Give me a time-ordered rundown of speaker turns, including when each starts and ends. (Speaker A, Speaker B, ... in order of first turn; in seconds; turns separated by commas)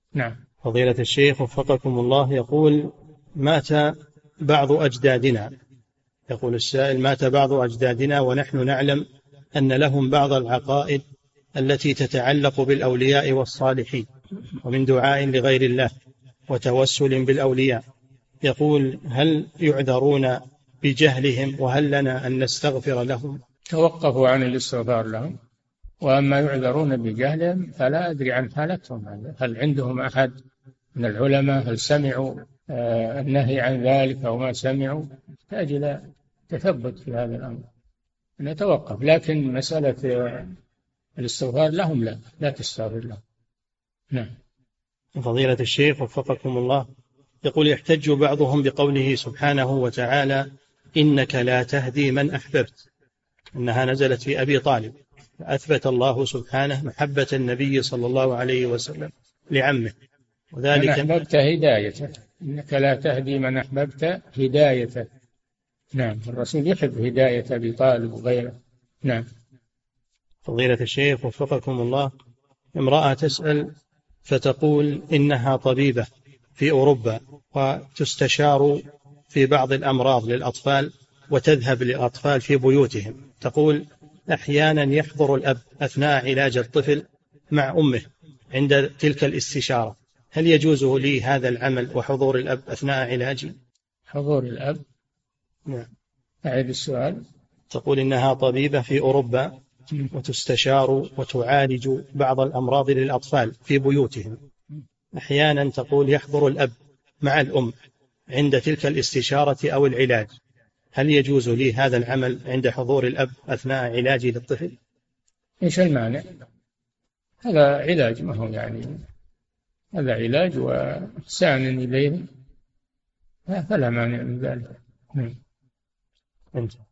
Speaker A: 0.6-5.5, Speaker A: 6.3-11.0, Speaker A: 11.6-14.1, Speaker A: 14.6-15.9, Speaker A: 16.5-17.8, Speaker A: 18.4-23.4, Speaker B: 23.7-25.4, Speaker B: 26.0-30.4, Speaker B: 31.0-37.6, Speaker B: 38.4-40.5, Speaker B: 41.2-43.2, Speaker A: 45.2-46.9, Speaker A: 47.4-52.8, Speaker A: 53.5-59.9, Speaker A: 60.5-61.1, Speaker B: 60.7-65.1, Speaker B: 66.0-69.3, Speaker A: 70.5-72.1, Speaker A: 72.8-73.7, Speaker A: 74.3-78.8, Speaker A: 79.3-93.5, Speaker B: 94.1-94.8, Speaker B: 96.4-97.2, Speaker A: 97.7-99.5, Speaker A: 100.1-104.4, Speaker A: 105.1-107.7, Speaker A: 108.3-110.3, Speaker A: 111.0-114.8, Speaker B: 115.6-116.2, Speaker B: 117.4-119.0, Speaker B: 119.9-122.3, Speaker B: 123.5-125.4